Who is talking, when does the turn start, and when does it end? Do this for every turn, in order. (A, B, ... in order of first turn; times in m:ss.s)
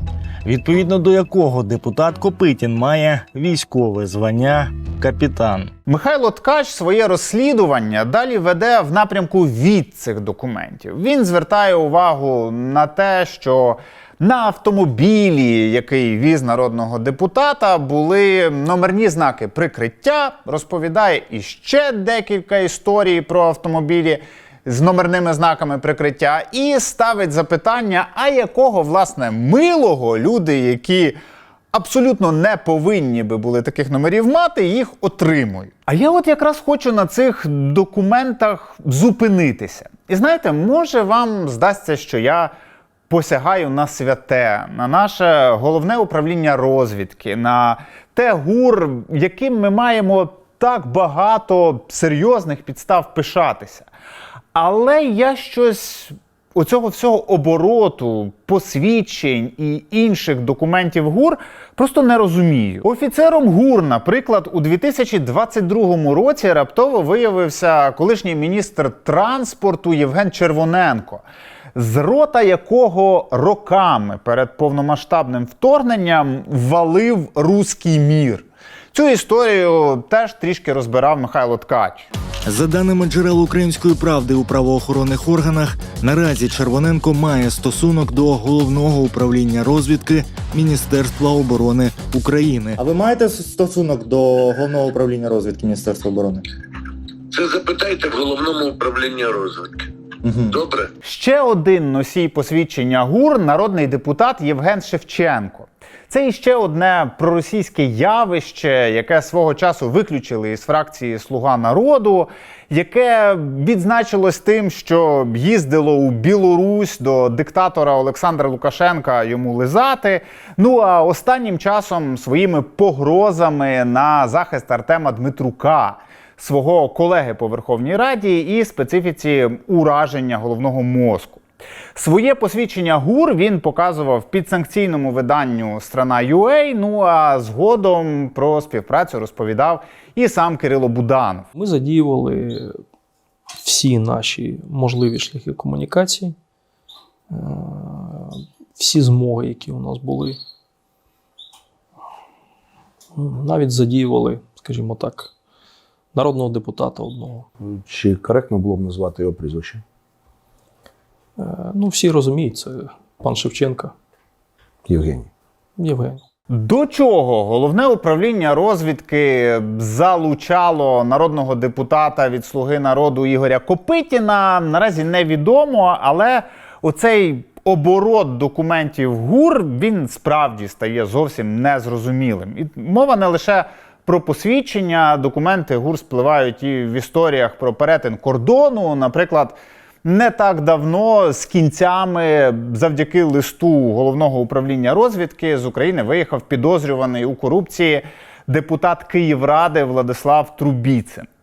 0:00.4-0:05.7 A
0:05.8-0:31.2 B
0:31.7-0:42.5 B
0:43.1-0:53.9 B
0:54.5-1:11.2 B
1:11.7-1:22.1 B
1:22.4-1:32.8 A
1:32.8-1:36.4 C
1:37.3-1:40.9 D
1:41.0-2:11.4 B
2:12.0-2:21.5 B
2:21.6-2:22.8 E
2:23.6-2:26.4 E
2:27.3-2:30.4 E
2:33.2-2:35.3 E
2:36.1-2:37.4 E
2:37.7-2:39.8 F
2:41.4-2:43.9 E
2:44.9-2:45.3 F
2:45.8-2:46.2 E
2:46.5-3:21.3 B